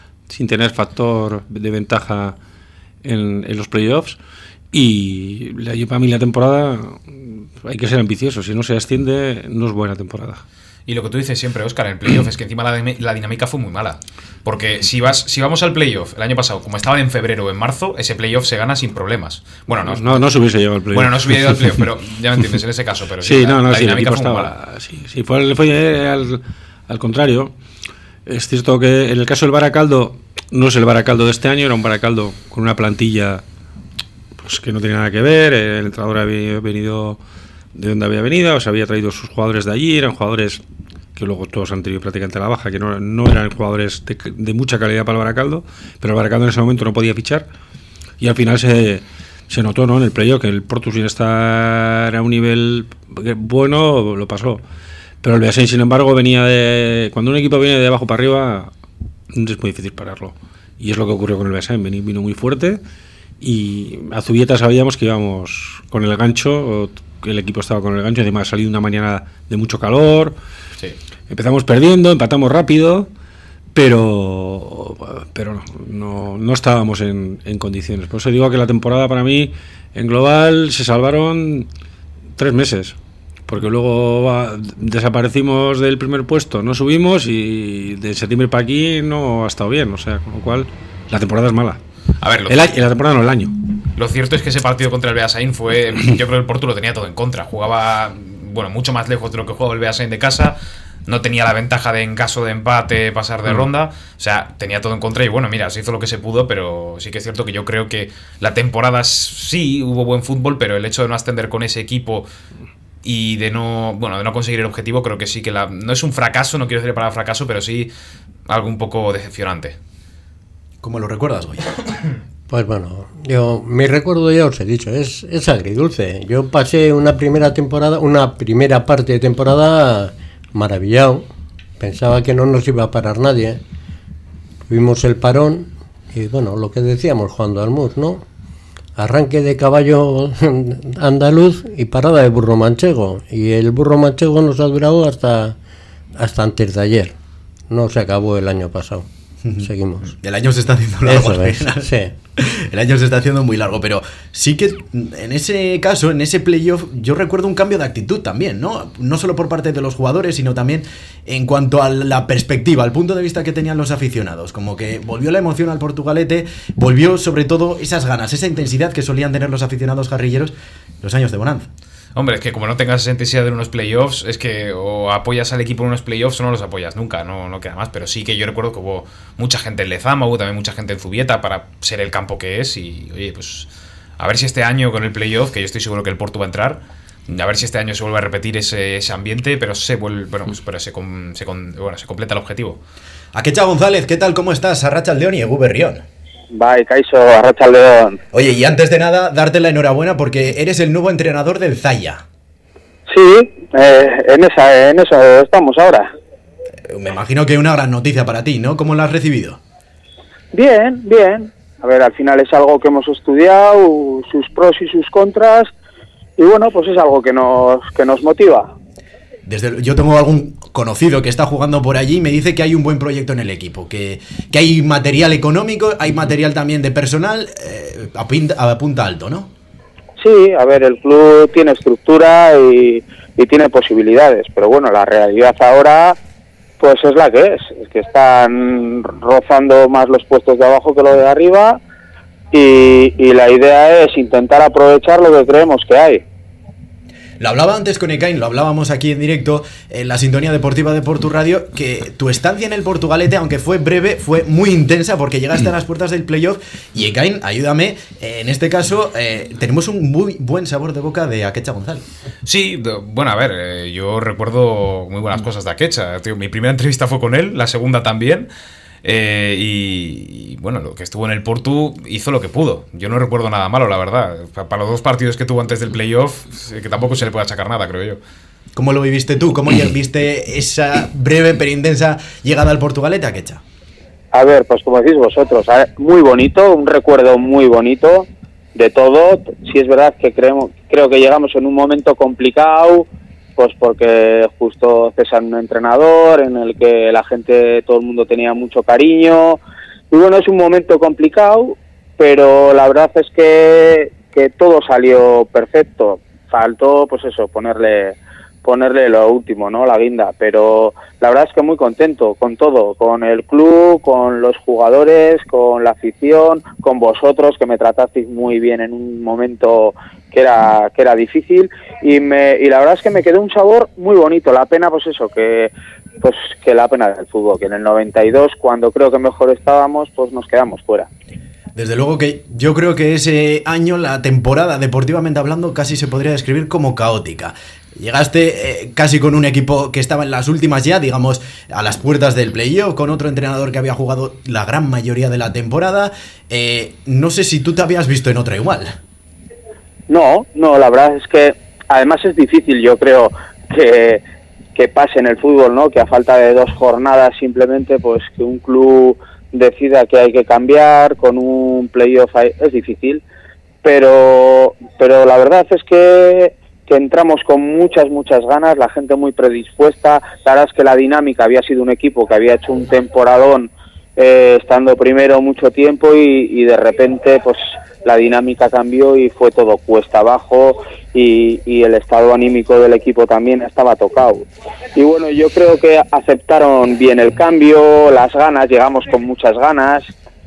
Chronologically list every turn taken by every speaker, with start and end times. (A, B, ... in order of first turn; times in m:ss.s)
0:00.3-0:02.4 A
0:03.0-0:04.2 A
0:04.7-0:10.4 A
0:10.9-0:20.3 B
0:19.9-0:21.8 A
0:20.9-0:24.5 B
0:23.2-0:27.5 A
0:28.3-0:33.4 A
0:34.4-0:37.2 A
0:37.7-0:40.6 A
0:41.2-0:47.5 A
0:48.2-0:54.6 A
0:55.2-0:58.7 A
0:59.3-1:02.8 A
1:03.4-1:10.4 A
1:11.3-1:13.1 A
1:13.7-1:21.7 A
1:22.4-1:23.0 A
1:23.5-1:31.8 A
1:32.2-1:32.7 B
1:32.5-1:33.6 A
1:34.0-1:52.3 B
1:53.0-1:57.9 B
1:58.5-1:59.8 B
2:00.8-2:01.8 C
2:02.5-2:11.3 D
2:11.8-2:13.6 D
2:14.7-2:18.2 D
2:19.0-2:25.6 D
2:26.2-2:27.2 D
2:27.7-2:30.2 D
2:30.2-2:51.7 C
2:31.0-2:32.1 D
2:52.2-3:12.8 B
3:13.4-3:16.0 C
3:16.5-3:18.2 E
3:18.3-3:22.2 C
3:23.1-3:26.1 E
3:26.9-3:29.6 C
3:30.5-3:35.7 E
3:36.4-3:38.7 E
3:39.5-3:49.5 C
3:50.2-3:56.2 E
3:56.8-4:01.8 E
4:02.5-4:06.2 E
4:07.4-4:22.0 C
4:22.4-4:28.5 B
4:29.0-4:38.2 B
4:38.8-4:43.6 C
4:44.3-4:53.1 E
4:53.6-4:59.6 E
5:00.1-5:31.1 E
5:31.8-5:48.9 C
5:50.1-5:54.2 E
5:54.8-6:03.2 E
6:03.8-6:30.1 E